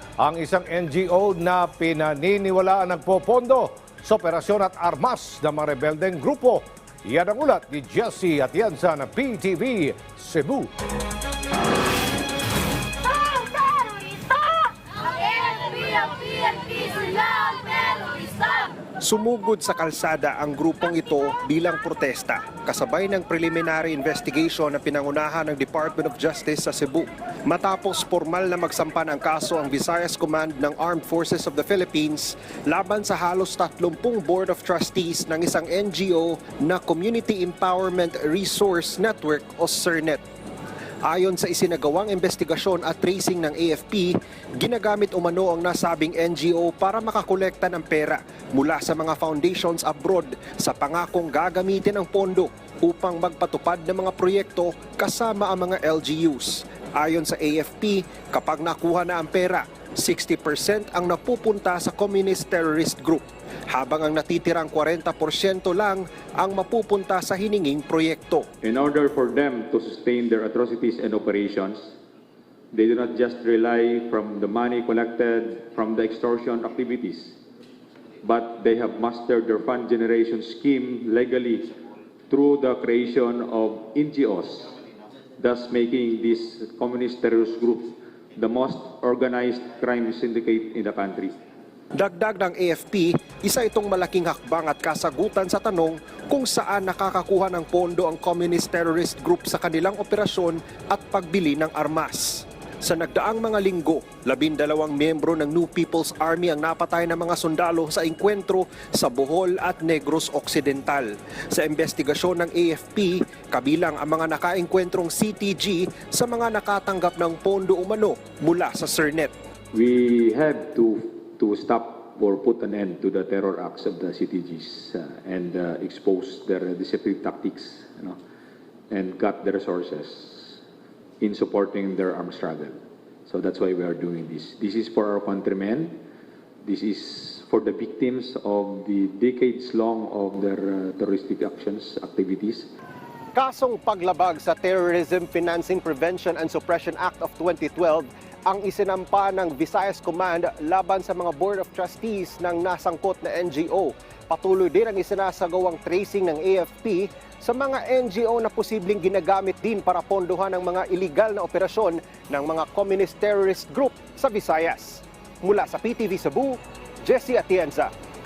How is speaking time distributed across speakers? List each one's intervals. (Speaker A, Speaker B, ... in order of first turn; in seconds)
Speaker A: 0.2-10.7
Speaker B: 13.6-14.1, 15.0-18.5
Speaker C: 19.0-40.2, 41.0-68.5, 91.9-119.3, 143.3-167.9
Speaker D: 68.6-71.9, 72.7-77.4, 78.2-81.7, 82.3-84.7, 85.4-91.4, 119.7-128.2, 128.9-130.6, 131.2-136.0, 136.6-142.7